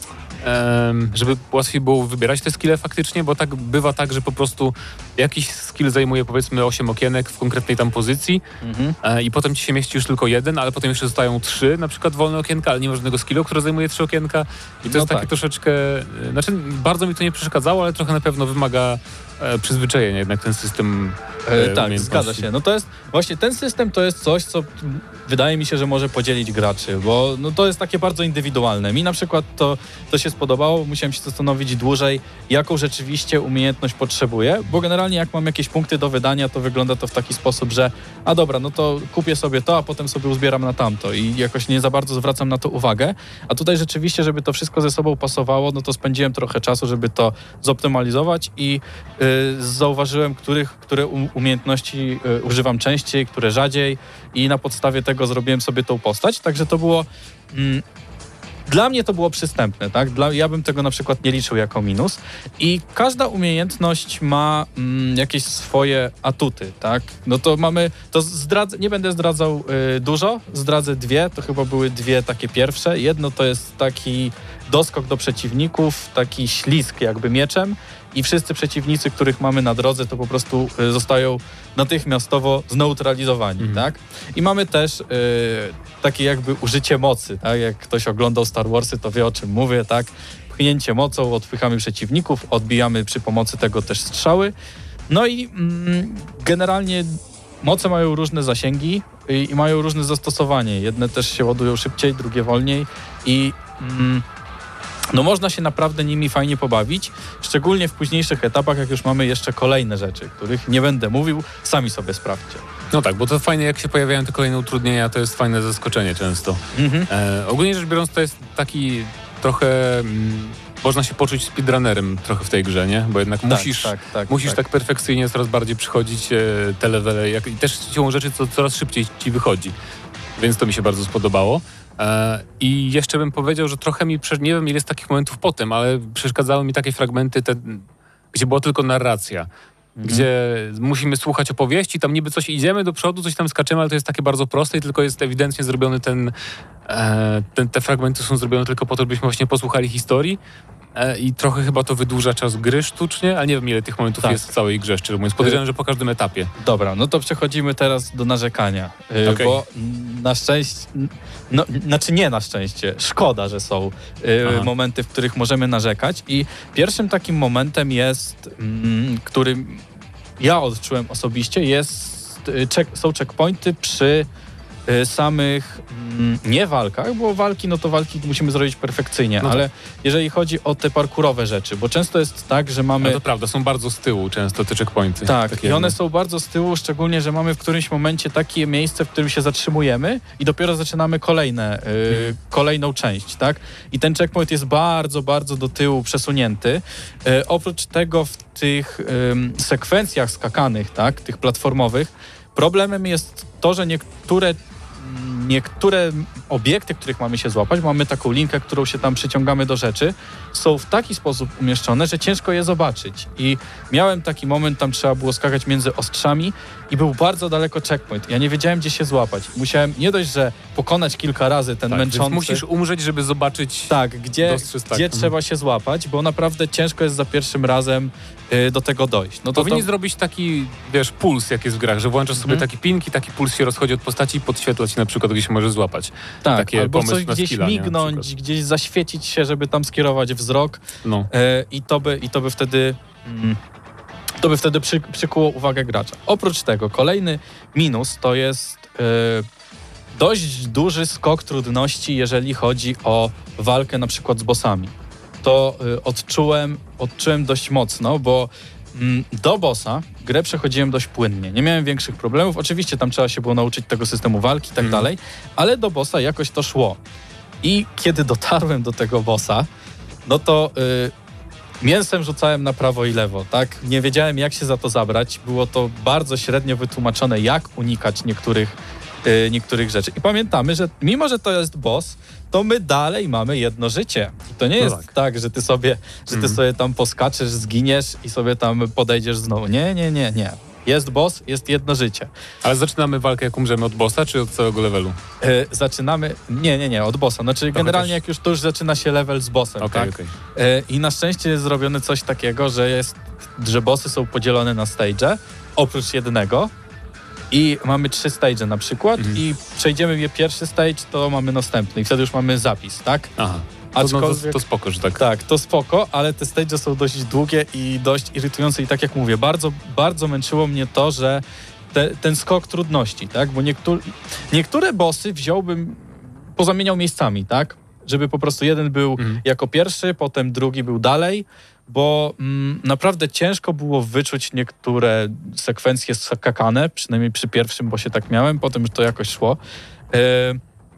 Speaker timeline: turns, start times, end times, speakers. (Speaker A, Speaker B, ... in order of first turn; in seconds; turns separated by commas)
Speaker A: 0.4-8.4, Speaker B: 8.6-8.9, Speaker A: 9.0-22.5, Speaker B: 14.9-15.3, Speaker B: 21.4-57.8, Speaker B: 58.7-94.5, Speaker A: 83.6-83.8, Speaker B: 95.1-104.2, Speaker B: 105.1-112.6, Speaker A: 112.9-129.7, Speaker B: 116.7-117.1, Speaker B: 123.5-124.6, Speaker A: 130.4-139.5, Speaker B: 140.0-140.2, Speaker A: 140.0-146.3, Speaker A: 146.8-150.4, Speaker A: 150.9-156.5, Speaker B: 154.2-154.5, Speaker B: 156.6-169.8, Speaker A: 159.2-159.6, Speaker B: 170.4-174.3, Speaker B: 174.9-183.2, Speaker A: 183.0-185.9, Speaker B: 185.2-222.6, Speaker A: 221.9-225.3, Speaker B: 223.9-229.9, Speaker A: 229.5-238.3, Speaker B: 232.4-232.6, Speaker B: 236.4-243.6, Speaker B: 244.4-249.4, Speaker B: 250.1-267.0, Speaker A: 264.8-265.1, Speaker B: 267.6-269.7, Speaker B: 270.2-271.1, Speaker B: 271.8-292.3, Speaker A: 284.8-285.1, Speaker A: 286.3-286.6, Speaker A: 292.6-295.2, Speaker B: 295.4-306.7, Speaker A: 297.7-298.2, Speaker A: 299.8-300.3, Speaker B: 307.5-313.3, Speaker A: 313.4-315.2, Speaker B: 313.9-314.6, Speaker B: 315.2-339.6, Speaker B: 340.1-340.6